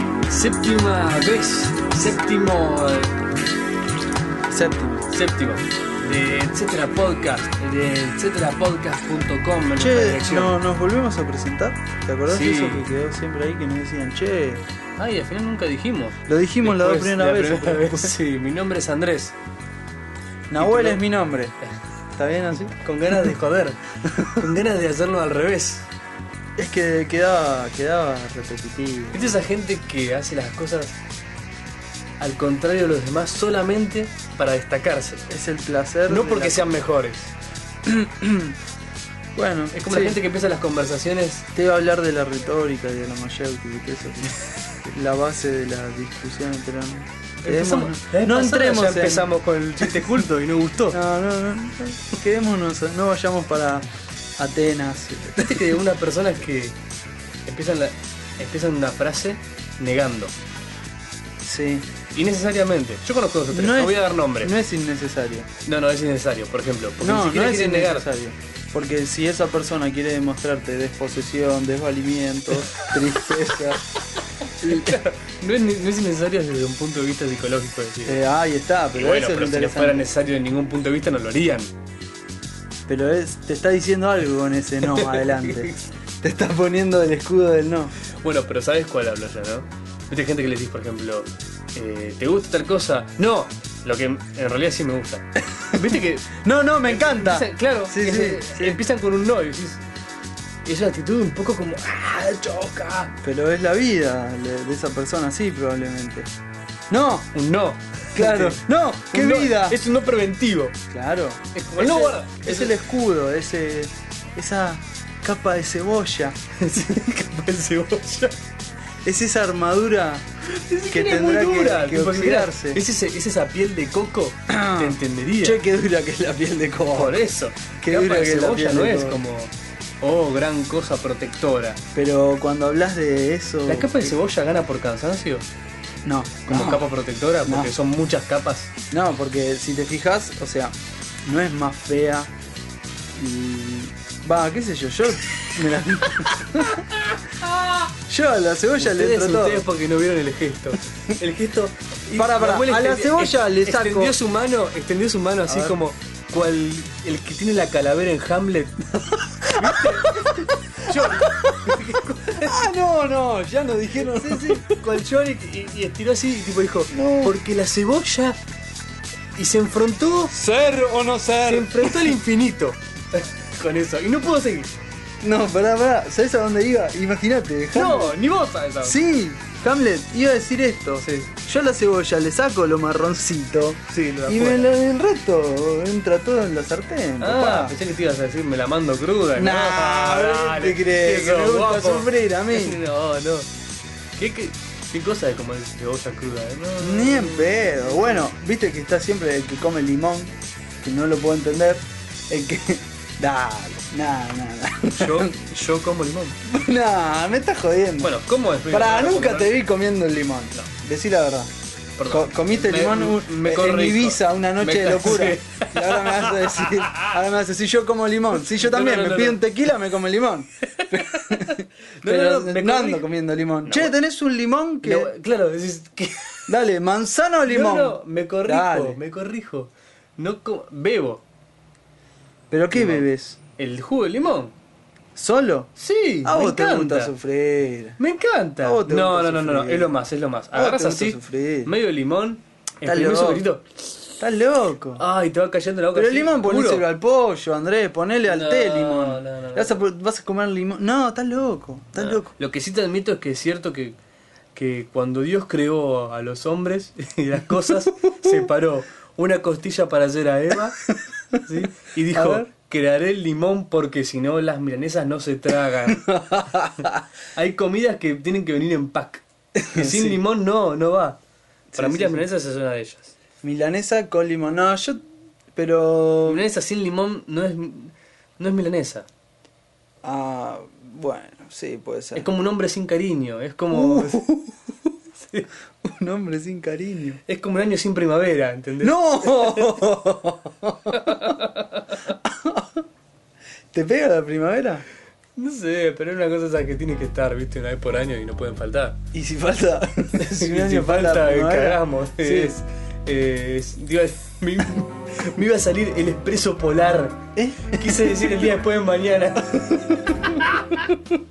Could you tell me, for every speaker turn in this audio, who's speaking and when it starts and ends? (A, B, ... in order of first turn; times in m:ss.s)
0:00.3-0:03.1 A
0:04.5-0:05.0 B
0:05.1-0:10.5 A
0:09.8-0:14.6 B
0:12.3-0:12.9 A
0:15.0-0:19.3 A
0:16.3-0:18.1 B
0:20.5-0:21.5 B
0:20.6-0:21.0 A
0:22.1-0:23.3 B
0:22.7-0:25.9 A
0:24.1-0:24.4 B
0:26.6-0:29.3 B
0:29.1-0:31.0 A
0:32.2-0:35.3 A
0:35.3-0:36.6 B
0:36.1-0:37.3 A
0:37.8-0:38.6 B
0:39.3-0:40.2 B
0:39.7-0:41.4 A
0:41.5-0:49.3 B
0:47.4-0:51.0 A
0:49.8-0:50.1 B
0:50.9-0:55.7 B
0:55.4-0:56.8 A
0:57.4-1:00.3 A
1:01.4-1:01.9 B
1:02.1-1:04.5 A
1:03.5-1:05.5 B
1:05.6-1:08.1 A
1:07.0-1:13.8 B
1:12.6-1:12.9 A
1:14.4-1:18.2 A
1:14.6-1:15.0 B
1:18.0-1:20.0 B
1:19.0-1:21.7 A
1:22.9-1:27.9 B
1:24.9-1:25.9 A
1:28.1-1:36.3 A
1:35.6-1:38.8 B
1:36.8-1:39.8 A
1:40.6-1:43.1 A
1:43.2-1:46.3 B
1:46.9-1:47.3 B
1:47.3-1:50.7 A
1:48.1-1:49.8 B
1:50.9-1:56.4 B
1:51.5-1:52.7 A
1:56.6-1:58.3 A
1:59.0-2:00.2 B
2:00.4-2:05.6 A
2:00.9-2:02.8 B
2:04.5-2:07.2 B
2:06.9-2:11.8 A
2:07.8-2:09.2 B
2:11.9-2:14.2 B
2:13.6-2:15.4 A
2:16.0-2:16.9 B
2:16.5-2:18.7 A
2:17.4-2:17.7 B
2:18.9-2:22.3 B
2:23.1-2:26.8 B
2:26.6-2:27.9 A
2:28.1-2:29.6 B
2:28.8-2:38.8 A
2:32.2-2:34.1 B
2:35.4-2:35.8 B
2:39.4-2:40.3 A
2:39.6-2:41.8 B
2:40.8-2:42.6 A
2:42.4-2:44.7 B
2:44.0-2:48.4 A
2:46.9-2:47.4 B
2:49.3-2:50.3 A
2:50.3-2:52.2 B
2:51.4-2:54.7 A
2:55.2-2:58.2 B
2:57.7-2:59.0 A
2:58.8-3:07.7 B
3:01.0-3:01.3 A
3:03.9-3:04.7 A
3:07.2-3:13.5 A
3:09.3-3:12.8 B
3:14.2-3:18.3 A
3:16.8-3:25.3 B
3:24.9-3:26.4 A
3:26.4-3:31.5 B
3:28.0-3:29.6 A
3:32.0-3:37.1 A
3:32.1-3:45.1 B
3:38.4-3:39.4 A
3:40.6-3:43.0 A
3:43.6-3:43.9 A
3:44.8-3:46.5 A
3:46.5-3:49.0 B
3:47.5-3:51.2 A
3:52.5-3:53.4 B
3:52.7-3:53.0 A
3:53.6-3:54.5 A
3:55.2-3:55.7 B
3:55.8-3:57.1 A
3:56.2-3:58.0 B
3:58.0-4:03.6 A
3:58.6-3:59.9 B
4:00.5-4:01.7 B
4:02.8-4:03.4 B
4:04.2-4:05.0 B
4:05.0-4:06.9 A
4:05.9-4:12.3 B
4:08.3-4:09.8 A
4:12.0-4:14.0 A
4:14.5-4:26.2 A
4:22.1-4:22.5 B
4:25.9-4:27.0 B
4:26.8-4:31.2 A
4:29.6-4:30.2 B
4:31.7-4:32.2 B
4:31.8-4:33.1 A
4:33.4-4:35.0 B
4:35.5-4:36.4 B
4:36.2-4:39.1 A
4:40.0-4:42.2 B
4:42.1-4:44.2 A
4:43.7-4:44.9 B
4:45.2-4:45.5 A
4:45.8-4:47.2 B
4:47.3-4:49.8 A
4:48.8-4:51.3 B
4:50.9-4:52.0 A
4:52.1-4:52.8 B
4:53.7-4:54.8 B
4:55.4-4:59.0 A
4:59.1-5:02.6 B
5:00.2-5:10.4 A
5:07.4-5:08.5 B
5:10.1-5:11.0 B